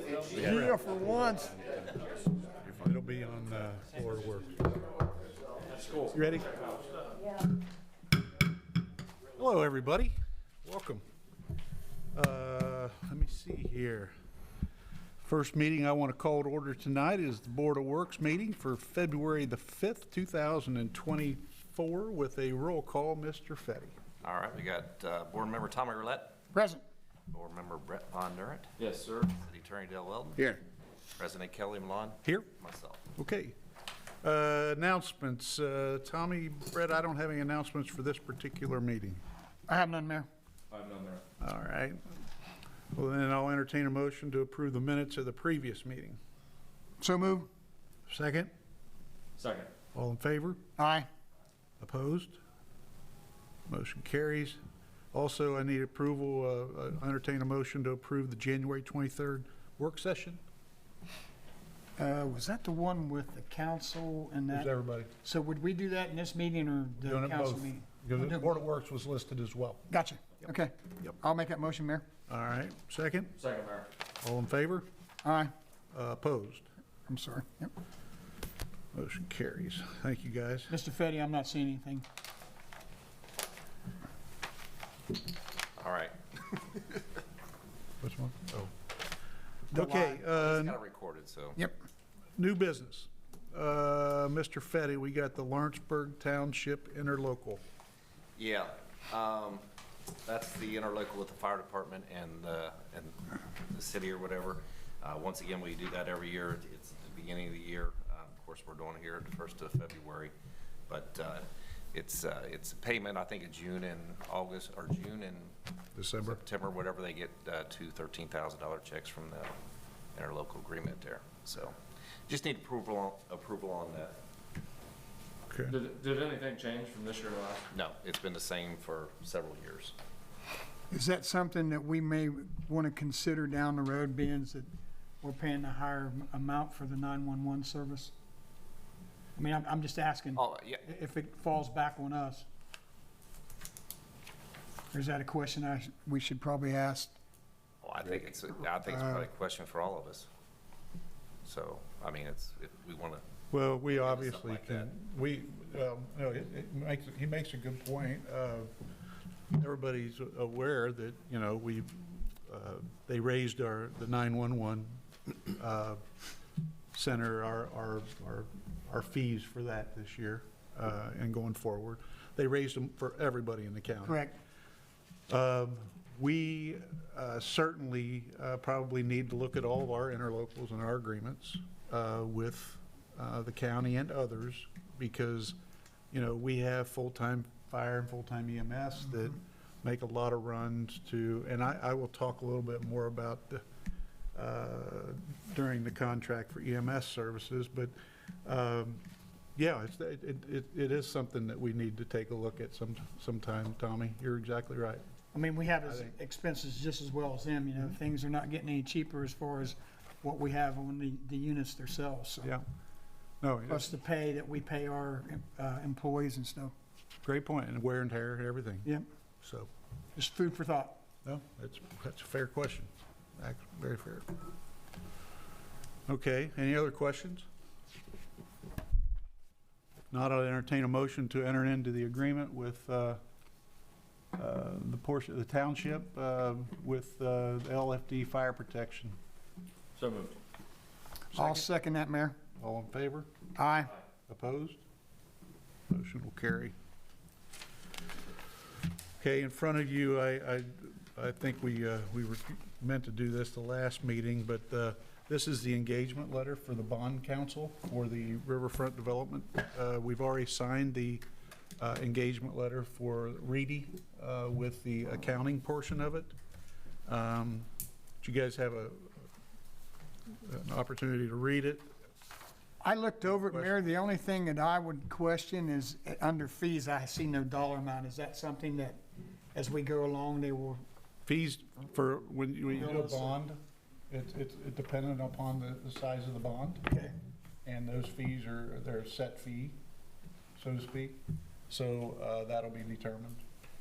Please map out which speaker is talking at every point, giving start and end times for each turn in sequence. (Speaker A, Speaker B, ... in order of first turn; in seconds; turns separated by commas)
Speaker A: 0.3-1.6, Speaker B: 0.3-0.8, Speaker B: 2.6-4.6, Speaker C: 5.8-6.1, Speaker B: 6.1-6.5, Speaker B: 9.4-11.0, Speaker B: 12.1-14.1, Speaker B: 15.2-23.9, Speaker D: 24.2-26.3, Speaker A: 26.5-26.8, Speaker D: 27.3-28.7, Speaker C: 28.8-29.3, Speaker D: 29.3-30.4, Speaker D: 31.2-33.0, Speaker B: 32.2-32.5, Speaker B: 33.2-33.5, Speaker B: 34.2-39.2, Speaker A: 39.7-40.3, Speaker C: 40.7-41.2, Speaker B: 41.4-42.0, Speaker B: 42.9-46.2, Speaker A: 47.0-47.5, Speaker B: 48.1-48.5, Speaker C: 49.4-49.7, Speaker B: 50.0-50.6, Speaker A: 50.8-51.1, Speaker B: 51.8-52.4, Speaker B: 53.7-54.6, Speaker B: 55.1-60.4, Speaker A: 62.0-64.7, Speaker B: 64.5-65.1, Speaker A: 65.2-68.6, Speaker B: 67.0-69.8, Speaker A: 69.9-72.1, Speaker B: 72.3-73.3, Speaker C: 73.4-73.9, Speaker B: 74.2-74.9, Speaker A: 75.2-75.5, Speaker B: 75.9-76.7, Speaker A: 77.1-77.7, Speaker B: 78.9-80.7, Speaker A: 80.7-82.1, Speaker D: 85.8-86.2, Speaker B: 88.0-88.7, Speaker A: 89.7-90.2, Speaker B: 89.7-90.8, Speaker D: 90.3-91.6, Speaker B: 92.4-97.6, Speaker D: 98.4-99.7, Speaker D: 100.2-110.3, Speaker D: 110.9-115.5, Speaker B: 116.0-116.4, Speaker D: 116.2-119.6, Speaker D: 120.1-121.8, Speaker D: 122.3-124.2, Speaker B: 125.5-125.8, Speaker C: 125.7-127.7, Speaker D: 127.7-129.9, Speaker A: 130.9-134.7, Speaker A: 135.2-138.1, Speaker A: 139.3-142.5, Speaker D: 140.3-140.8, Speaker A: 144.9-147.2, Speaker D: 147.8-150.3, Speaker A: 148.9-149.2, Speaker D: 151.4-153.2, Speaker B: 153.5-158.7, Speaker D: 153.9-154.9, Speaker B: 159.5-166.0, Speaker B: 166.9-174.2, Speaker A: 174.1-174.3, Speaker B: 175.3-185.6, Speaker B: 186.1-193.6, Speaker B: 194.3-197.9, Speaker B: 198.4-199.0, Speaker B: 199.6-205.0, Speaker A: 205.3-212.5, Speaker B: 205.8-206.1, Speaker B: 213.4-213.9, Speaker A: 213.7-216.7, Speaker B: 217.2-218.9, Speaker B: 219.4-219.7, Speaker A: 220.2-221.0, Speaker B: 221.2-224.3, Speaker B: 226.1-227.5, Speaker B: 230.1-233.2, Speaker B: 234.3-239.2, Speaker C: 240.0-240.4, Speaker A: 241.3-242.4, Speaker B: 241.3-241.7, Speaker B: 242.6-243.3, Speaker A: 243.6-243.9, Speaker B: 244.3-244.8, Speaker B: 245.9-246.7, Speaker B: 249.2-261.2, Speaker B: 261.8-266.3, Speaker B: 267.1-267.7, Speaker B: 268.2-269.2, Speaker B: 270.4-271.9, Speaker A: 272.8-279.0, Speaker A: 279.5-280.8, Speaker B: 281.2-286.9, Speaker A: 282.8-283.3, Speaker B: 287.6-289.8, Speaker B: 290.6-293.4